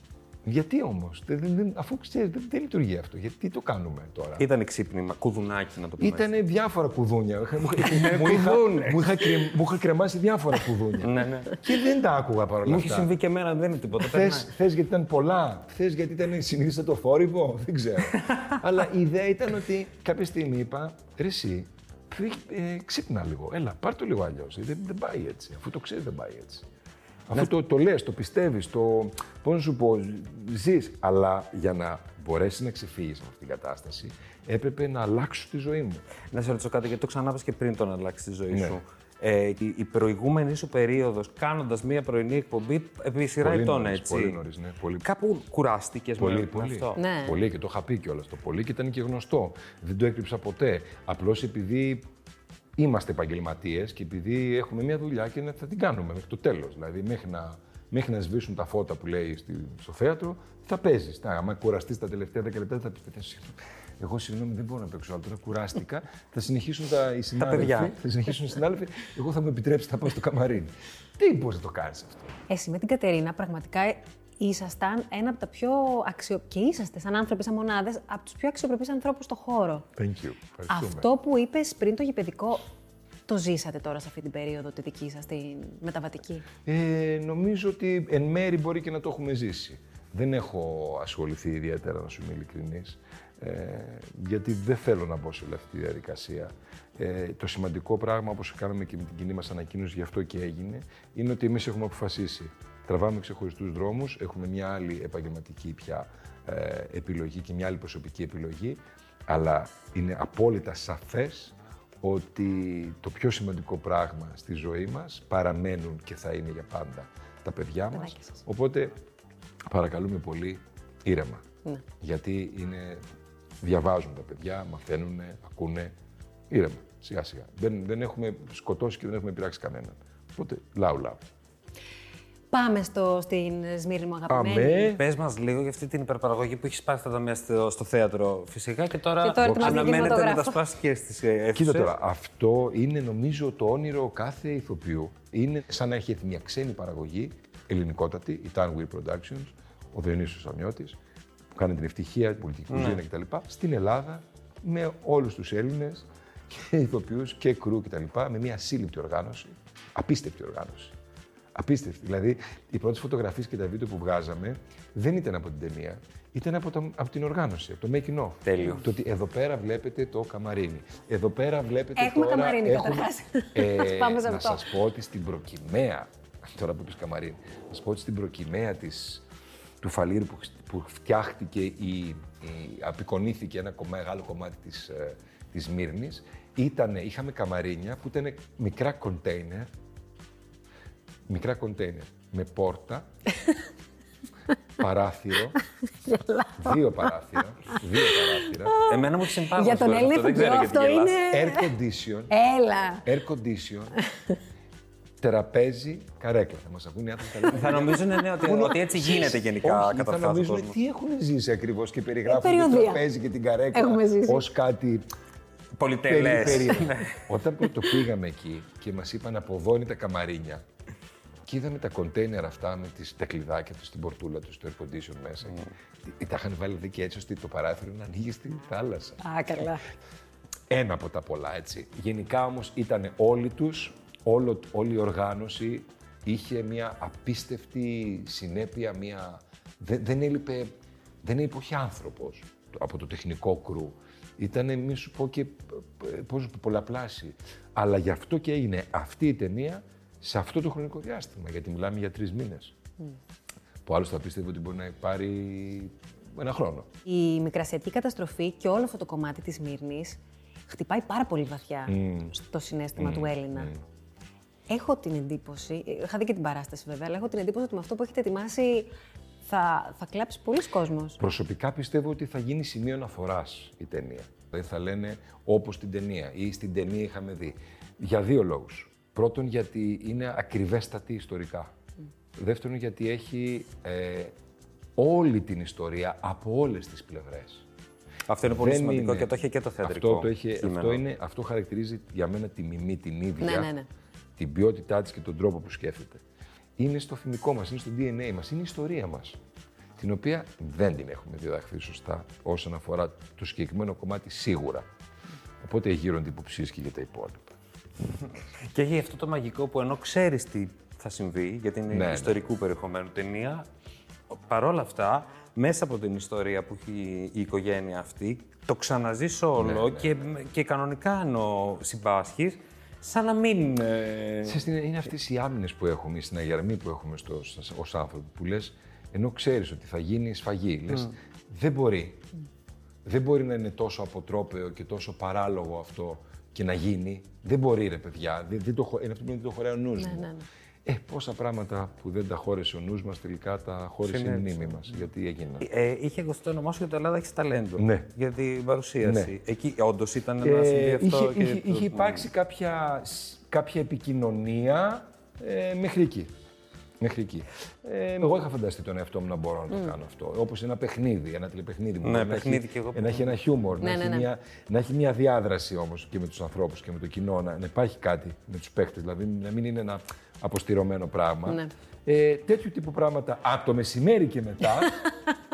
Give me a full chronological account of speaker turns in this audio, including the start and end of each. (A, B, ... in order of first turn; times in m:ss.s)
0:00.4-0:04.4 A
0:04.4-0:06.3 B
0:06.0-0:13.1 A
0:07.7-0:09.5 B
0:11.0-0:11.6 B
0:12.6-0:14.5 B
0:14.0-0:26.6 A
0:27.3-0:36.0 A
0:36.3-0:44.4 B
0:38.5-0:38.8 A
0:43.4-0:45.1 A
0:45.0-0:47.0 B
0:46.2-0:52.0 A
0:47.0-0:47.4 C
0:52.8-1:12.3 A
1:07.4-1:08.0 B
1:12.5-1:19.9 C
1:20.0-1:21.0 A
1:20.7-1:22.6 C
1:23.3-1:26.4 C
1:26.6-1:58.9 A
1:58.0-1:58.4 C
1:59.7-2:01.4 A
2:02.0-2:03.0 A
2:03.6-2:05.9 A
2:06.5-2:11.2 A
2:12.5-2:14.9 C
2:14.3-2:15.0 A
2:15.0-2:21.9 B
2:19.2-2:20.6 C
2:19.4-2:20.2 A
2:21.5-2:31.0 A
2:31.5-2:40.9 A
2:32.7-2:33.0 B
2:41.5-2:59.2 A
2:48.4-2:48.9 B
2:52.0-2:54.6 C
2:59.8-3:09.7 A
3:11.3-3:13.1 A
3:14.8-3:15.6 A
3:16.0-3:16.8 C
3:16.5-3:18.8 A
3:18.1-3:19.0 C
3:18.9-3:21.2 B
3:19.5-3:21.7 C
3:21.3-3:22.3 A
3:22.3-3:23.0 C
3:23.0-3:24.0 A
3:25.2-3:35.0 A
3:27.5-3:30.8 B
3:32.2-3:33.0 C
3:33.7-3:34.4 C
3:35.8-3:37.3 B
3:36.1-3:40.6 A
3:41.4-3:49.2 A
3:49.2-3:49.8 C
3:50.7-4:00.7 A
4:01.2-4:12.7 A
4:13.8-4:16.9 A
4:17.0-4:23.7 C
4:21.9-4:22.3 A
4:23.0-4:23.8 A
4:24.7-4:28.9 C
4:29.4-4:31.2 C
4:31.2-4:41.7 A
4:42.4-4:44.3 A
4:45.0-4:47.6 A
4:48.3-4:51.0 B
4:48.4-4:53.7 A
4:53.4-4:53.9 C
4:54.4-4:56.2 A
4:56.8-4:59.4 A
5:00.0-5:04.8 A
5:05.6-5:07.5 A
5:08.7-5:13.7 B
5:11.9-5:12.4 A
5:14.3-5:24.6 B
5:19.6-5:20.2 A
5:24.4-5:32.2 A
5:33.0-5:40.3 A
5:40.0-5:40.4 C
5:40.8-5:45.6 A
5:44.0-5:45.1 B
5:45.6-5:52.2 B
5:47.8-5:48.1 A
5:49.0-5:49.3 A
5:50.4-5:56.3 A
5:57.0-6:15.0 A
6:02.0-6:03.3 B
6:03.8-6:04.3 C
6:11.4-6:11.7 C